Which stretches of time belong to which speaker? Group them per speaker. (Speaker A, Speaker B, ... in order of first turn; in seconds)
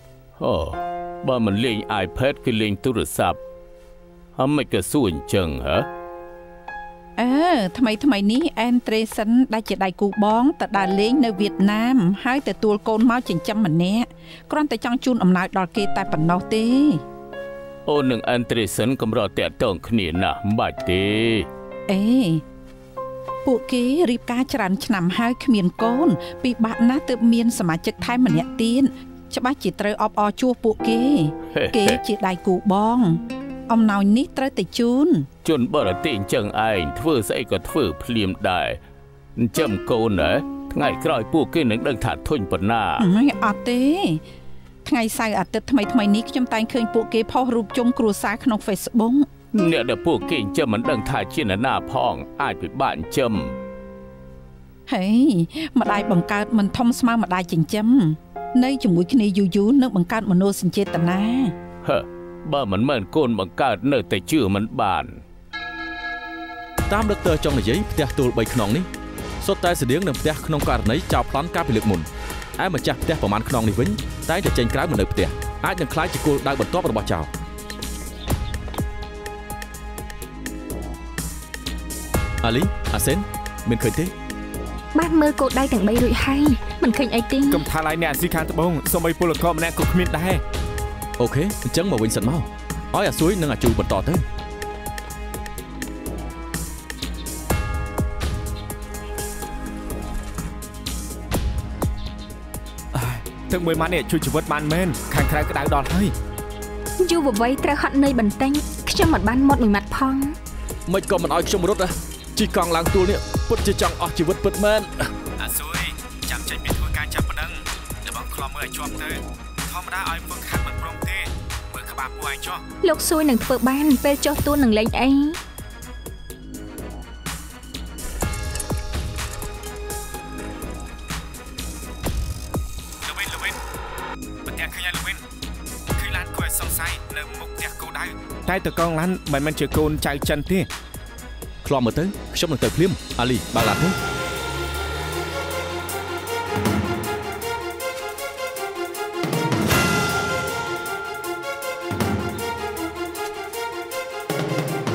Speaker A: 0.4-3.4, 4.4-5.9, 17.9-21.5, 31.5-32.0, 35.5-38.8, 39.4-43.1, 49.5-53.5, 61.8-65.2
Speaker B: 7.2-17.0, 21.9-22.4, 23.4-35.3, 43.0-44.2, 44.9-49.3, 54.9-61.5
Speaker C: 66.9-68.9, 69.4-72.1, 72.6-77.3, 82.4-84.1, 91.2-94.2, 110.9-115.1, 141.6-143.9
Speaker D: 84.9-87.7, 107.0-110.4, 122.8-125.4
Speaker E: 87.5-90.4, 102.9-106.1, 115.4-122.6, 133.0-133.6, 134.4-135.2, 135.9-140.7